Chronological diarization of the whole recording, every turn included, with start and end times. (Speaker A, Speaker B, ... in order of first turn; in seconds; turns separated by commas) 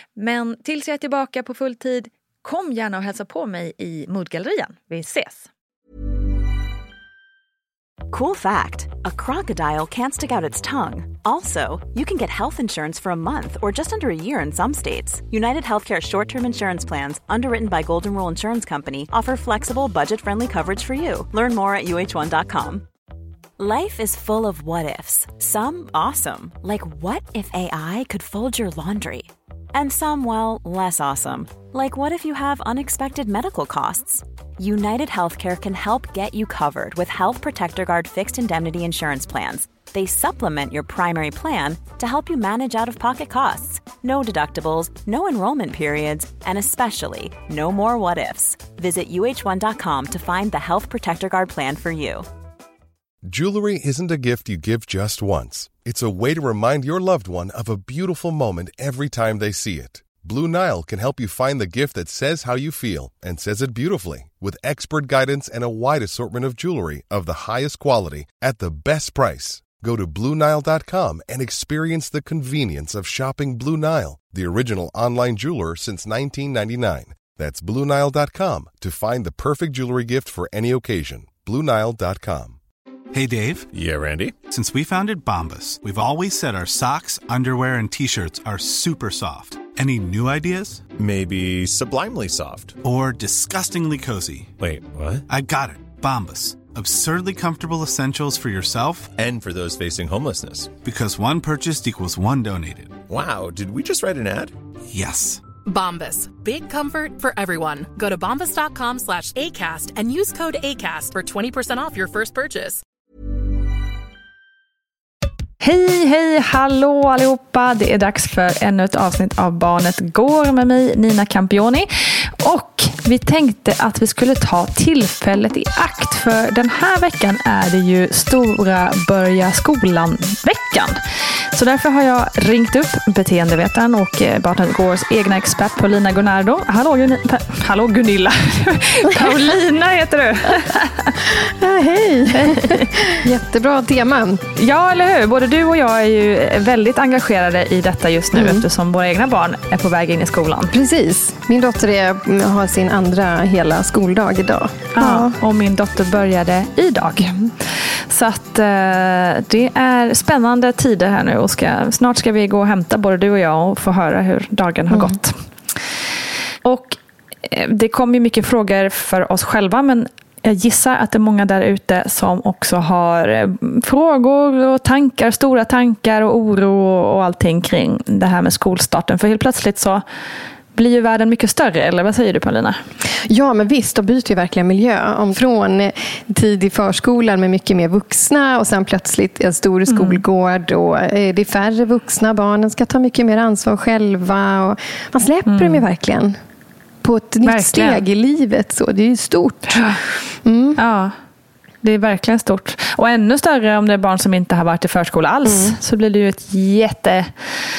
Speaker A: 0.2-5.5, Speaker B: 8.1-22.9, Speaker B: 23.6-52.3, Speaker C: 53.2-82.6, Speaker D: 83.1-83.7, Speaker E: 83.7-84.4, Speaker D: 84.5-90.9, Speaker E: 90.9-92.8, Speaker D: 92.8-94.6, Speaker E: 94.6-95.2, Speaker D: 95.3-99.1, Speaker E: 99.2-100.7, Speaker D: 100.8-103.0, Speaker E: 103.1-104.5, Speaker D: 104.9-105.5, Speaker F: 105.6-112.8, Speaker A: 115.6-121.9, Speaker A: 122.4-131.0, Speaker A: 131.5-141.2, Speaker G: 141.3-144.4, Speaker A: 142.3-142.9, Speaker A: 144.6-150.7, Speaker G: 148.3-148.7, Speaker G: 150.7-155.4, Speaker A: 155.0-165.4, Speaker G: 164.9-165.2, Speaker A: 166.6-180.0, Speaker A: 180.7-182.8, Speaker G: 183.3-196.4, Speaker A: 189.9-190.2, Speaker A: 195.5-195.8, Speaker G: 197.0-200.8, Speaker A: 197.4-198.0, Speaker A: 199.7-200.0, Speaker A: 200.8-201.1, Speaker A: 201.8-207.3, Speaker G: 205.4-205.8